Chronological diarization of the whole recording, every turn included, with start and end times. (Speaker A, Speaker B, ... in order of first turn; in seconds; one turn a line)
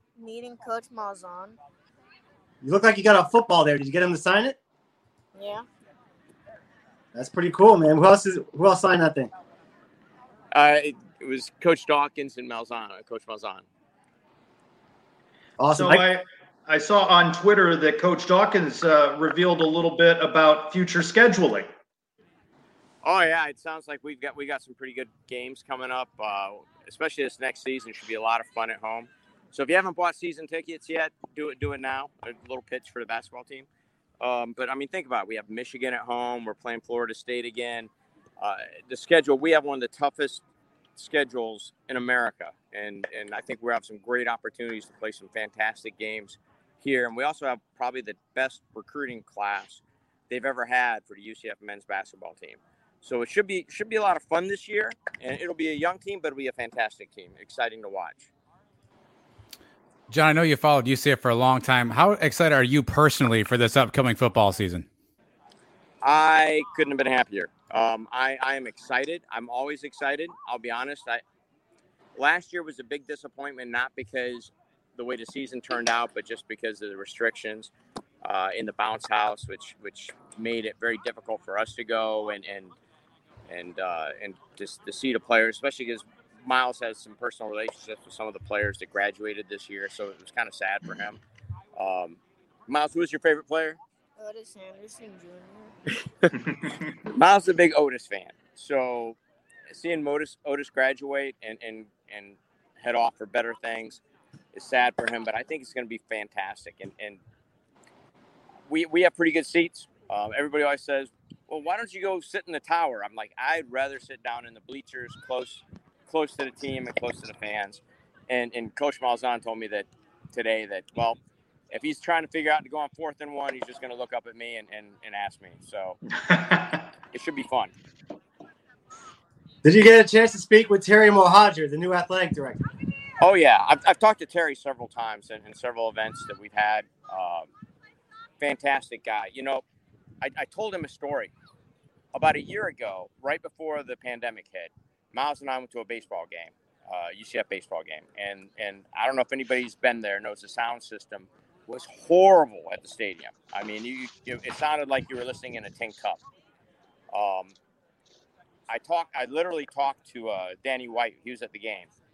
Speaker A: 0.2-1.5
Speaker B: 2.6-4.6
Speaker A: 5.3-5.6
Speaker B: 7.1-9.3
Speaker C: 10.5-13.7
Speaker B: 15.6-16.0
Speaker D: 15.7-21.7
Speaker C: 23.0-33.7
Speaker C: 34.2-40.4
Speaker C: 41.0-58.3
Speaker E: 60.1-64.8
Speaker C: 66.0-71.2
Speaker C: 72.2-77.7
Speaker C: 78.2-82.7
Speaker C: 83.5-91.2
Speaker C: 91.8-93.8
Speaker A: 94.2-95.7
Speaker C: 97.1-99.2
Speaker C: 99.7-104.0
Speaker C: 104.5-107.2
Speaker C: 108.7-121.2
Speaker C: 121.7-126.0
Speaker D: 126.2-126.8
Speaker C: 127.1-127.7
Speaker B: 129.6-132.6
Speaker C: 133.2-137.5
Speaker C: 138.4-139.6
Speaker C: 140.2-141.3
Speaker C: 142.1-156.2
Speaker C: 157.1-157.5
Speaker C: 158.7-161.9